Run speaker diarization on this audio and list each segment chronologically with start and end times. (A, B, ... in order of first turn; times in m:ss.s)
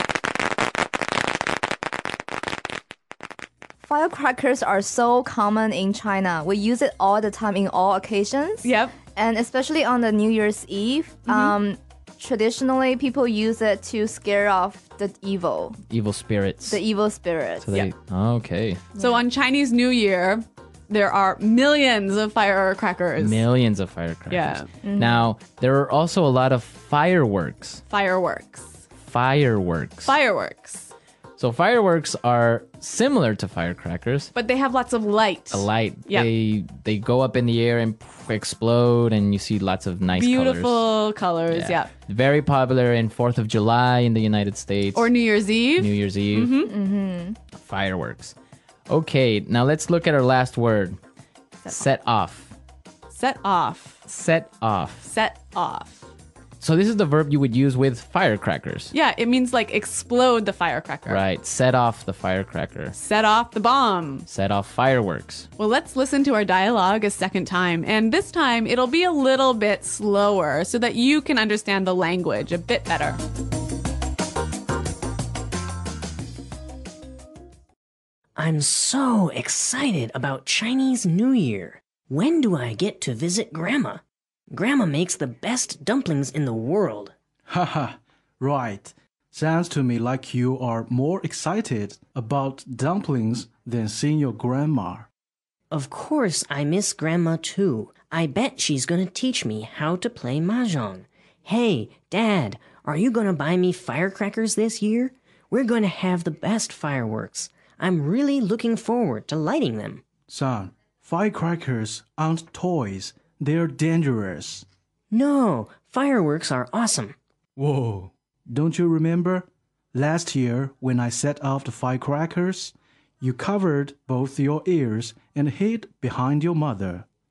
0:03.8-0:15.8 A
0:08.6-0:09.0 B
0:11.3-0:11.5 B
0:15.9-0:16.8 C
0:16.7-0:17.7 A
0:17.6-0:18.8 C
0:18.9-0:23.4 B
0:19.0-0:19.2 A
0:23.2-0:27.8 C
0:24.3-0:24.7 B
0:24.8-0:25.2 A
0:27.9-0:28.8 B
0:29.0-0:30.1 C
0:30.0-0:30.9 B
0:31.4-0:34.3 C
0:34.3-0:36.3 B
0:35.5-0:40.8 C
0:40.1-0:41.9 B
0:41.5-0:45.1 C
0:44.9-0:46.7 B
0:45.8-0:46.5 C
0:46.6-0:47.4 A
0:47.5-0:48.3 C
0:48.9-0:51.0 C
0:51.7-0:52.5 C
0:53.1-0:54.0 B
0:54.1-0:55.0 C
0:55.0-0:56.0 B
0:56.6-0:58.9 C
0:58.9-1:01.2 B
1:01.0-1:02.9 C
1:02.9-1:04.3 B
1:04.3-1:05.5 C
1:05.6-1:13.2 B
1:18.4-1:27.1 D
1:27.5-1:35.1 E
1:35.7-1:50.0 D
1:50.3-1:54.6 E
1:55.1-1:57.1 D
1:57.6-2:07.0 E